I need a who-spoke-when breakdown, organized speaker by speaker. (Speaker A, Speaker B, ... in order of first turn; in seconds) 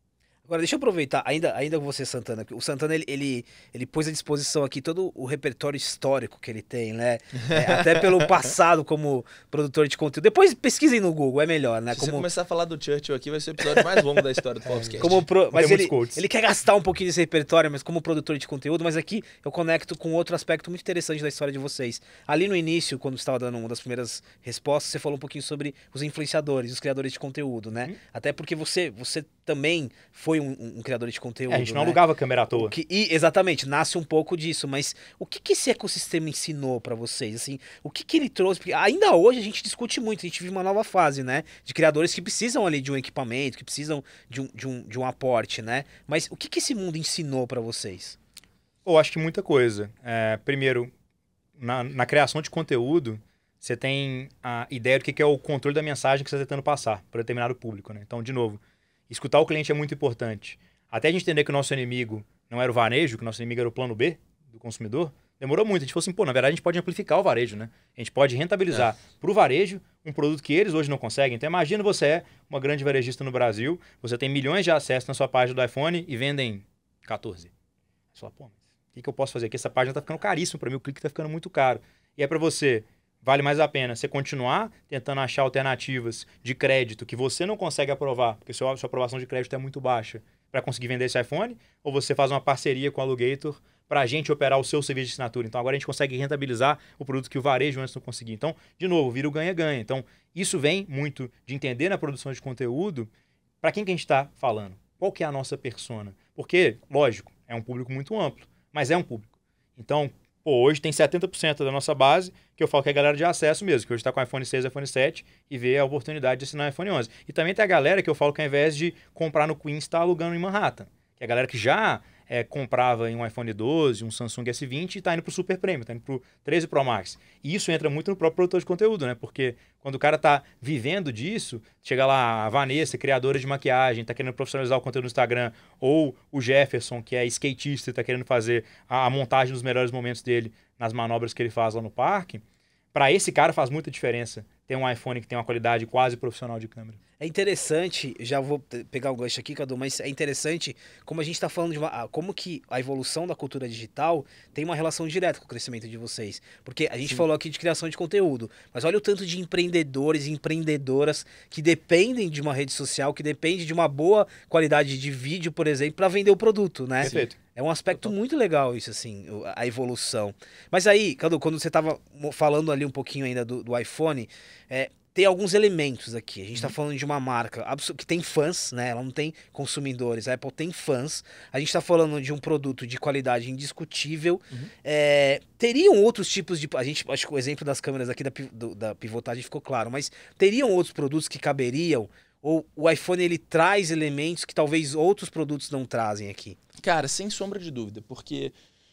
Speaker A: 0.5-12.3, 15.0-32.0, 32.5-48.2, 147.2-196.6
Speaker B: 7.5-8.1, 11.9-15.2, 196.8-198.5
Speaker C: 14.7-16.2, 31.5-32.7, 48.8-50.9, 51.6-77.5, 78.1-103.1, 103.6-142.4, 142.9-147.0, 167.0-167.4